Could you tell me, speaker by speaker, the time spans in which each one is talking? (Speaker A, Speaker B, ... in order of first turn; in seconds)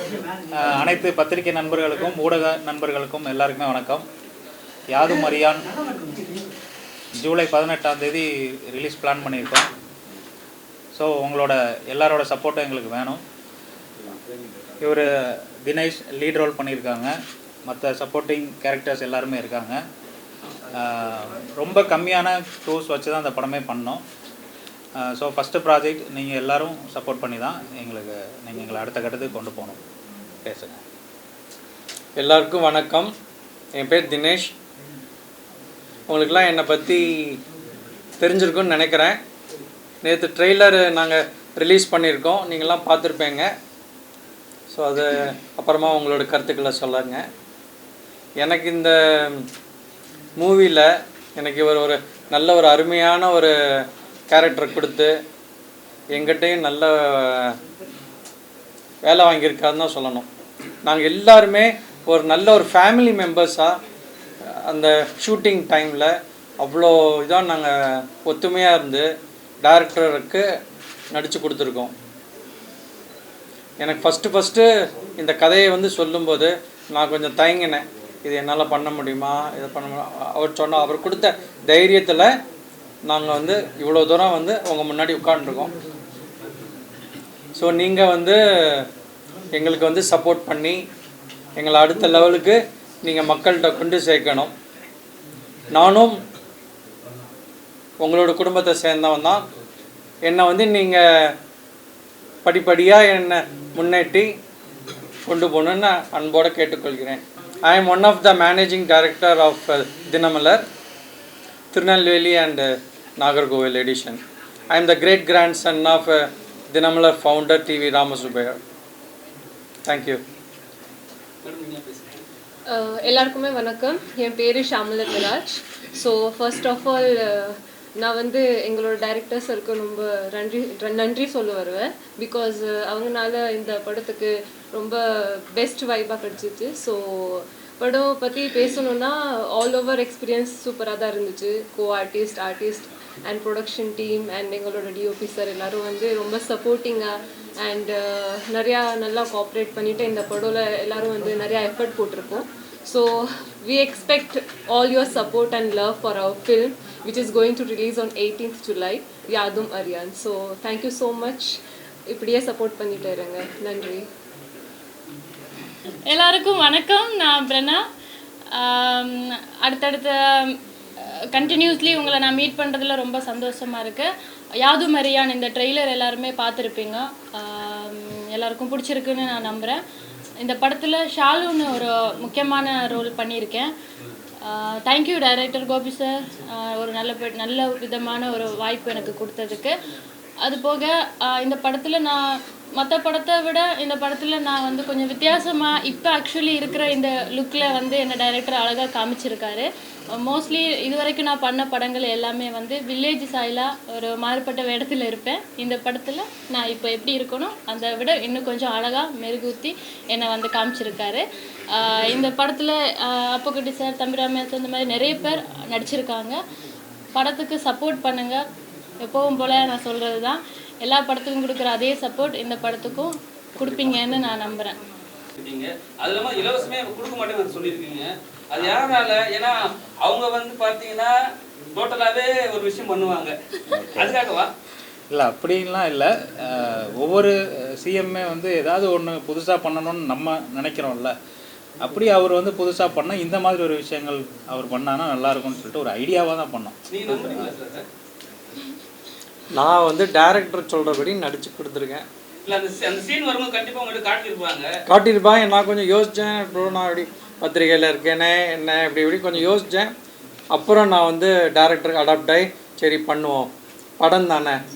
Speaker A: 0.6-4.0, 4.9-5.6, 7.2-9.7, 10.9-13.2, 14.8-17.1, 17.7-19.8, 20.7-24.0, 25.0-29.8, 30.4-30.8, 233.7-234.2, 235.1-241.1, 241.8-247.5
Speaker B: 32.1-33.1, 33.8-34.5, 36.1-37.4, 38.2-39.1, 40.0-43.5, 44.7-47.2, 48.4-49.4, 50.4-53.5, 54.3-55.1, 56.1-57.5, 59.0-60.3, 60.8-63.7, 64.7-69.1, 69.6-70.4, 71.1-71.9, 73.8-74.7, 75.2-82.3, 83.0-85.7, 87.5-88.8, 89.5-90.8, 91.5-94.5, 95.7-96.2, 98.0-99.4, 100.2-101.0, 102.4-104.3, 105.2-110.6, 111.7-112.7, 113.2-114.2, 114.7-118.6, 119.8-120.2, 249.5-252.1, 254.9-259.9, 260.5-264.6
Speaker C: 121.4-122.2, 225.3-231.1, 231.7-233.4, 233.9-234.5, 246.9-247.9, 252.4-254.7
Speaker D: 122.7-161.6, 162.1-164.0
Speaker E: 166.1-167.8, 168.6-170.6, 171.3-174.1, 174.6-179.8, 180.4-183.7, 184.5-189.7, 190.4-192.2, 192.8-199.7, 200.2-211.2, 211.8-216.4, 217.1-218.4, 219.0-224.8